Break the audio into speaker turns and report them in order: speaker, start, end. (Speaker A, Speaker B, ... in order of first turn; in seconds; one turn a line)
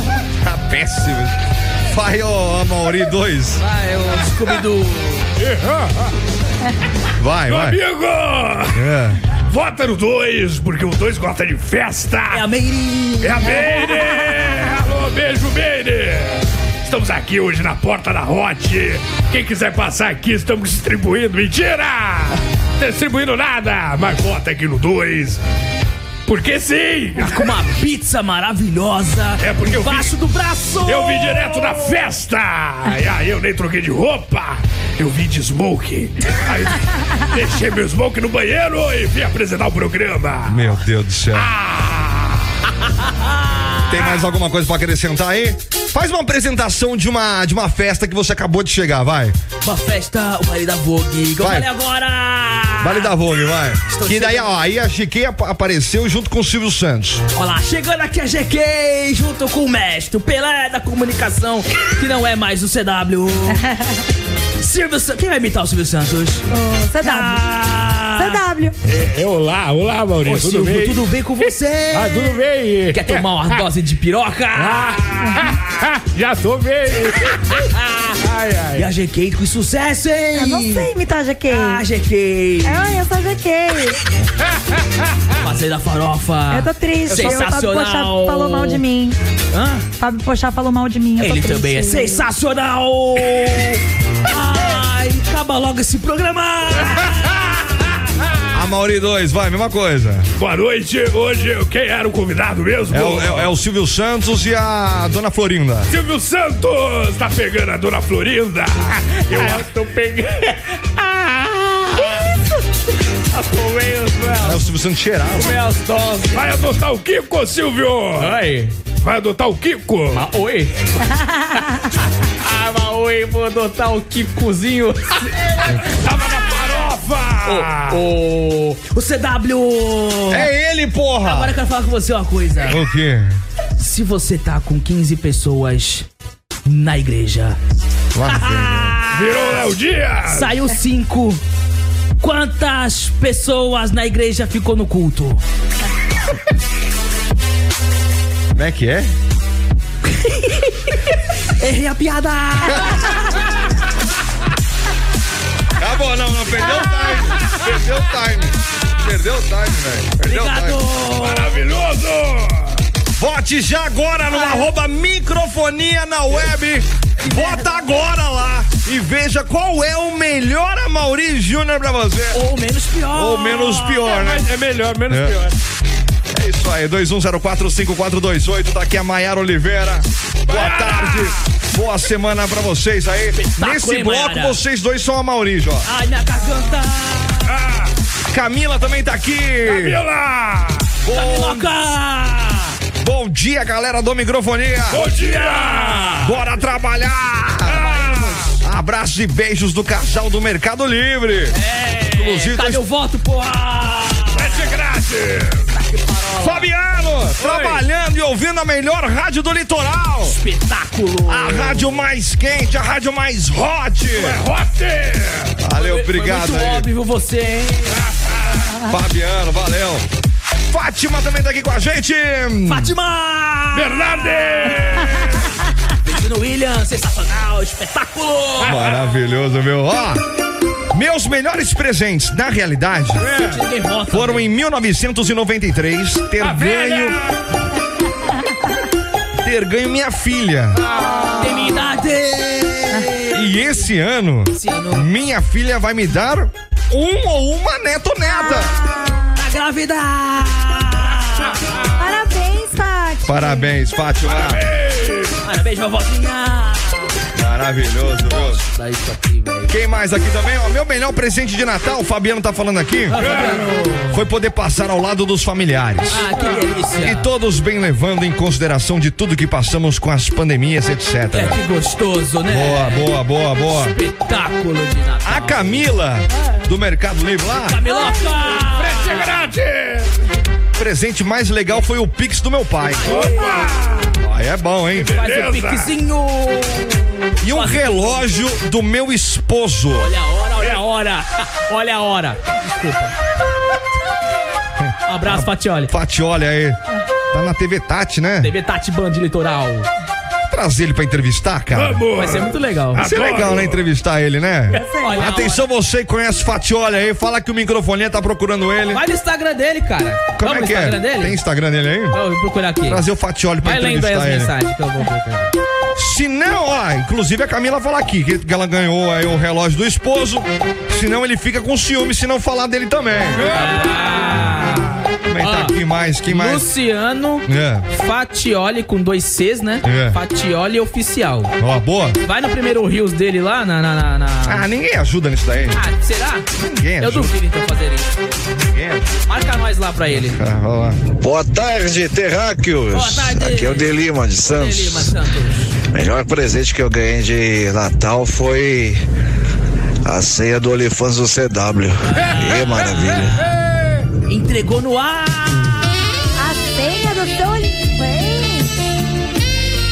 Speaker A: 0.4-3.6
Speaker B: 3.6-5.3
Speaker C: 5.4-6.1
Speaker A: 7.2-7.8
Speaker C: 7.5-8.8
Speaker A: 8.7-9.2
Speaker C: 9.4-12.4
Speaker B: 12.3-13.7
Speaker C: 13.2-25.4
Speaker C: 26.3-27.5
Speaker B: 27.2-32.0
Speaker C: 29.4-30.1
Speaker C: 30.9-40.7
Speaker A: 40.5-41.5
Speaker C: 41.3-42.5
Speaker B: 43.0-44.2
Speaker A: 43.9-49.4
Speaker B: 49.6-53.1
Speaker A: 51.4-51.7
Speaker A: 52.8-57.2
Speaker B: 53.9-54.5
Speaker B: 57.3-63.6
Speaker D: 63.5-64.0
Speaker B: 64.6-66.4
Speaker D: 66.5-67.5
Speaker B: 67.0-68.4
Speaker D: 68.2-68.8
Speaker E: 68.9-71.0
Speaker B: 70.2-72.4
Speaker E: 71.9-73.2
Speaker B: 72.9-75.1
Speaker E: 74.6-77.4
Speaker E: 78.1-78.9
Speaker B: 78.8-80.9
Speaker D: 80.3-81.8
Speaker B: 81.5-82.8
Speaker D: 82.6-84.0
Speaker B: 85.4-88.8
Speaker D: 86.5-89.2
Speaker E: 87.2-87.4
Speaker B: 89.5-89.9
Speaker D: 90.0-92.3
Speaker B: 91.2-98.0
Speaker A: 98.5-100.3
Speaker C: 100.4-103.5
Speaker A: 102.9-105.9
Speaker C: 105.9-109.7
Speaker B: 109.3-112.3
Speaker B: 113.3-114.7
Speaker A: 114.4-115.6
Speaker B: 115.3-116.6
Speaker C: 116.3-118.4
Speaker B: 118.2-118.8
Speaker C: 119.0-120.3
Speaker B: 120.1-121.0
Speaker D: 121.2-121.8
Speaker B: 121.6-125.8
Speaker C: 125.7-128.0
Speaker B: 127.5-130.5
Speaker A: 130.3-131.6
Speaker B: 131.2-132.8
Speaker A: 132.7-133.4
Speaker B: 133.8-136.1
Speaker B: 136.7-137.6
Speaker A: 138.1-139.0
Speaker B: 138.2-139.7
Speaker C: 139.1-140.5
Speaker B: 140.3-141.4
Speaker B: 142.2-145.4
Speaker A: 148.6-149.1
Speaker B: 150.1-153.4
Speaker A: 152.7-152.9
Speaker A: 155.8-160.8
Speaker B: 160.2-161.6
Speaker C: 161.1-162.8
Speaker A: 163.2-172.4
Speaker B: 167.3-167.7
Speaker B: 172.3-174.2
Speaker A: 173.1-174.5
Speaker E: 174.1-175.6
Speaker A: 175.1-175.4
Speaker A: 176.3-185.9
Speaker C: 180.5-181.4
Speaker B: 183.4-184.6
Speaker B: 185.8-187.6
Speaker C: 187.5-187.9
Speaker A: 188.3-190.0
Speaker C: 189.6-190.9
Speaker A: 191.0-191.7
Speaker B: 191.1-192.8
Speaker A: 193.0-195.0
Speaker C: 194.9-196.2
Speaker B: 194.9-196.4
Speaker A: 196.2-198.0
Speaker C: 197.7-198.5
Speaker B: 198.0-198.5
Speaker A: 198.6-201.6
Speaker B: 201.5-204.7
Speaker A: 202.1-202.8
Speaker C: 204.3-205.7
Speaker B: 205.7-206.7
Speaker A: 206.4-210.4
Speaker C: 207.4-207.8
Speaker B: 210.2-212.0
Speaker A: 211.3-214.4
Speaker C: 214.1-215.6
Speaker A: 215.6-216.9
Speaker B: 215.8-218.1
Speaker C: 218.0-218.3
Speaker A: 218.8-220.1
Speaker A: 220.7-222.9
Speaker B: 222.7-224.8
Speaker C: 223.7-225.5
Speaker B: 226.0-228.8
Speaker A: 228.6-230.2
Speaker C: 228.7-229.1
Speaker A: 230.9-233.3
Speaker B: 233.2-234.5
Speaker A: 234.1-237.3
Speaker C: 236.4-237.3
Speaker A: 239.4-240.8
Speaker D: 240.9-241.8
Speaker B: 241.4-243.7
Speaker A: 243.3-248.7
Speaker B: 244.5-245.1
Speaker D: 248.2-249.4
Speaker B: 249.3-251.6
Speaker D: 252.0-253.8
Speaker A: 253.3-254.6
Speaker C: 254.2-255.4
Speaker B: 255.4-257.2
Speaker A: 257.4-258.6
Speaker B: 258.2-259.7
Speaker A: 259.7-263.2
Speaker B: 263.1-264.2
Speaker C: 263.2-263.6
Speaker A: 264.1-266.3
Speaker B: 266.1-267.3
Speaker A: 266.9-271.6
Speaker B: 271.3-273.2
Speaker A: 272.5-274.0
Speaker B: 273.7-275.9
Speaker A: 275.2-277.8
Speaker B: 277.7-279.5
Speaker D: 277.9-278.4
Speaker C: 278.6-280.1
Speaker A: 280.8-283.3
Speaker B: 282.9-283.8
Speaker C: 283.0-284.2
Speaker A: 284.2-285.2
Speaker C: 284.9-285.9
Speaker B: 285.1-288.3
Speaker A: 287.4-290.1
Speaker B: 289.9-293.1
Speaker A: 294.8-296.8
Speaker B: 295.1-295.9
Speaker A: 297.3-298.5
Speaker B: 298.4-299.9
Speaker A: 300.5-302.1
Speaker C: 301.7-303.8
Speaker B: 302.1-303.1
Speaker A: 303.0-309.0
Speaker D: 304.7-305.3
Speaker B: 304.7-305.7
Speaker B: 308.9-311.4
Speaker A: 310.4-312.2
Speaker B: 312.1-313.1
Speaker A: 312.8-314.5
Speaker B: 313.6-315.5
Speaker A: 316.0-323.6
Speaker B: 323.4-331.6
Speaker C: 323.5-324.4
Speaker A: 325.3-326.7
Speaker A: 327.5-327.9
Speaker A: 329.8-330.2
Speaker A: 331.6-332.2
Speaker B: 332.2-334.7
Speaker A: 334.5-335.8
Speaker B: 335.7-336.5
Speaker A: 336.6-337.3
Speaker B: 337.0-338.1
Speaker A: 338.7-339.1
Speaker B: 339.3-340.4
Speaker A: 340.1-341.1
Speaker F: 341.2-345.1
Speaker B: 342.9-345.7
Speaker F: 345.9-349.0
Speaker F: 350.1-353.4
Speaker B: 352.0-353.3
Speaker B: 354.3-355.8
Speaker D: 356.4-358.8